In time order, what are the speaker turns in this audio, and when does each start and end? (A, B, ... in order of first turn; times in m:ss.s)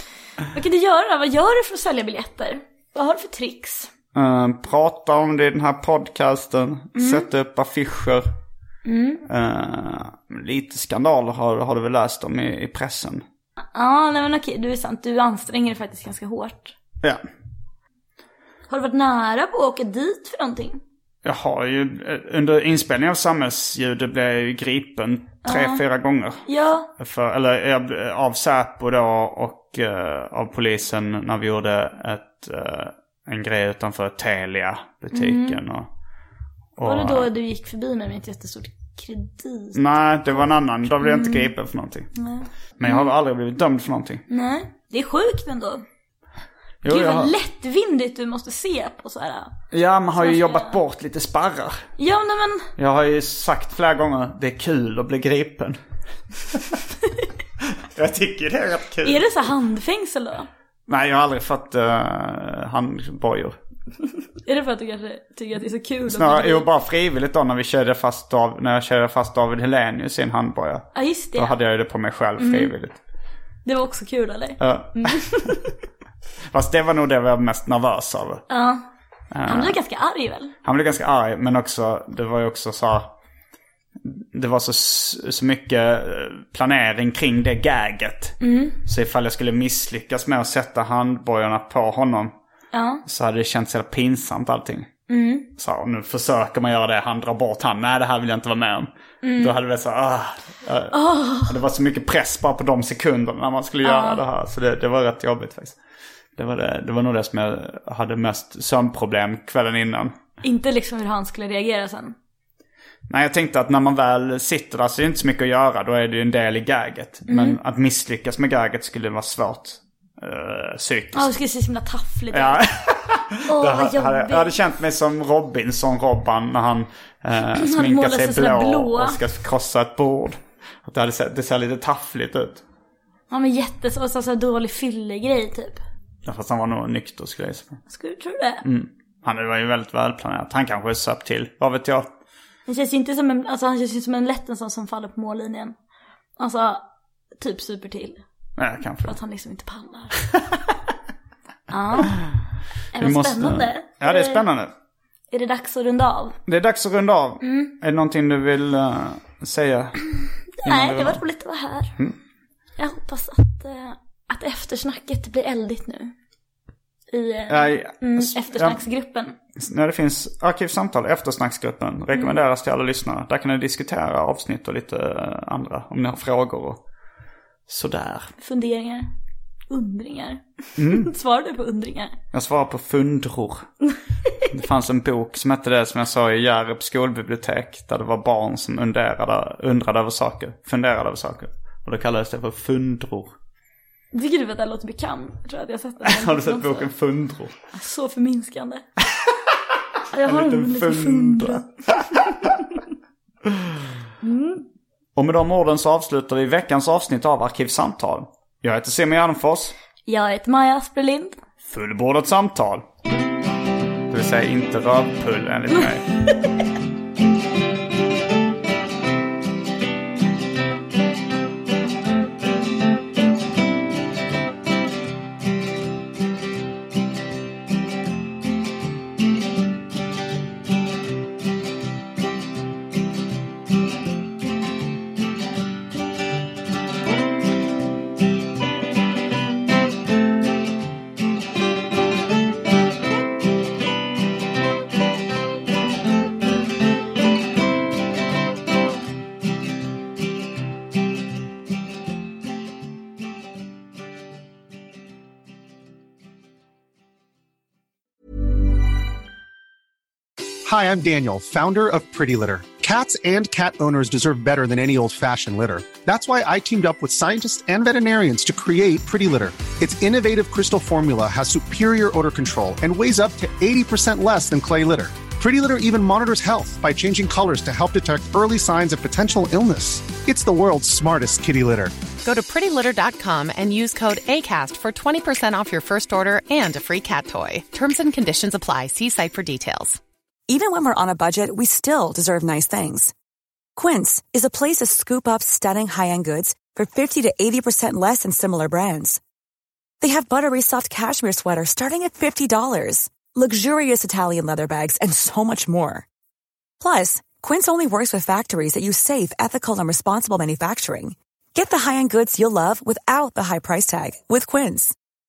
0:00.5-0:03.9 A
0:04.1-0:08.2 B
0:07.0-0:07.3 A
0:08.8-0:09.2 A
0:09.3-0:13.2 B
0:13.7-0:16.7 A
0:18.7-0:20.8 A
0:21.2-0:26.4 B
0:25.4-0:25.8 A
0:26.5-0:26.9 A
0:27.0-0:35.9 B
0:35.1-0:35.6 A
0:36.8-0:37.3 B
0:36.8-0:41.5 A
0:39.8-0:42.1 B
0:42.2-0:43.1 A
0:42.8-0:44.2 B
0:44.3-0:45.8 A
0:46.8-0:47.3 B
0:46.8-0:49.6 A
0:49.7-0:51.8 B
0:50.2-0:50.8 A
0:52.0-0:52.7 A
0:52.8-0:55.8 B
0:57.9-0:59.2 B
0:59.0-1:00.5 A
1:00.9-1:03.6 B
1:04.4-1:06.7 A
1:06.1-1:13.0 B
1:10.9-1:11.6 A
1:12.4-1:12.7 A
1:13.6-1:15.6 A
1:14.6-1:15.6 B
1:16.5-1:18.4 B
1:18.5-1:18.8 A
1:19.3-1:19.7 B
1:19.4-1:20.5 A
1:20.6-1:23.1 B
1:24.0-1:32.3 B
1:28.4-1:28.8 A
1:32.7-1:33.0 A
1:33.0-1:34.9 B
1:35.1-1:35.5 A
1:35.6-1:45.8 B
1:39.2-1:39.5 A
1:40.9-1:41.6 A
1:43.8-1:44.2 A
1:46.4-1:50.1 B
1:50.4-1:52.1 A
1:53.1-2:01.3 B
1:57.3-1:57.6 A
2:01.1-2:02.6 A
2:02.3-2:12.6 B
2:03.4-2:04.5 A
2:07.5-2:09.2 A
2:13.3-2:15.8 A
2:16.2-2:17.8 B
2:17.9-2:18.6 A
2:18.6-2:22.1 B
2:22.7-2:25.7 A
2:26.4-2:26.8 A
2:27.4-2:28.2 A
2:28.6-2:29.2 B
2:29.0-2:30.3 A
2:31.7-2:32.1 A
2:32.9-2:34.4 A
2:33.0-2:34.7 B
2:35.3-2:36.4 A
2:36.5-2:40.1 B
2:37.4-2:37.7 A
2:40.6-2:41.2 B
2:40.6-2:42.0 A
2:42.8-2:46.1 A
2:47.1-2:49.3 A
2:47.5-2:48.8 B
2:49.6-2:56.8 B
2:57.7-2:58.3 B
2:58.4-2:59.1 A
2:59.7-3:02.2 A
3:00.8-3:01.1 B
3:02.3-3:03.7 B
3:04.4-3:13.3 B
3:14.1-3:16.9 A
3:16.0-3:17.5 B
3:17.7-3:18.8 A
3:20.1-3:21.6 A
3:20.2-3:22.1 B
3:24.2-3:24.6 A
3:25.2-3:29.7 B
3:30.1-3:31.4 A
3:31.6-3:32.9 B
3:34.1-3:36.0 B
4:20.6-4:41.9 C
4:42.2-4:50.0 D
4:50.5-4:53.1 E
4:53.8-4:59.2 E
5:00.0-5:06.0 E
5:06.8-5:14.9 E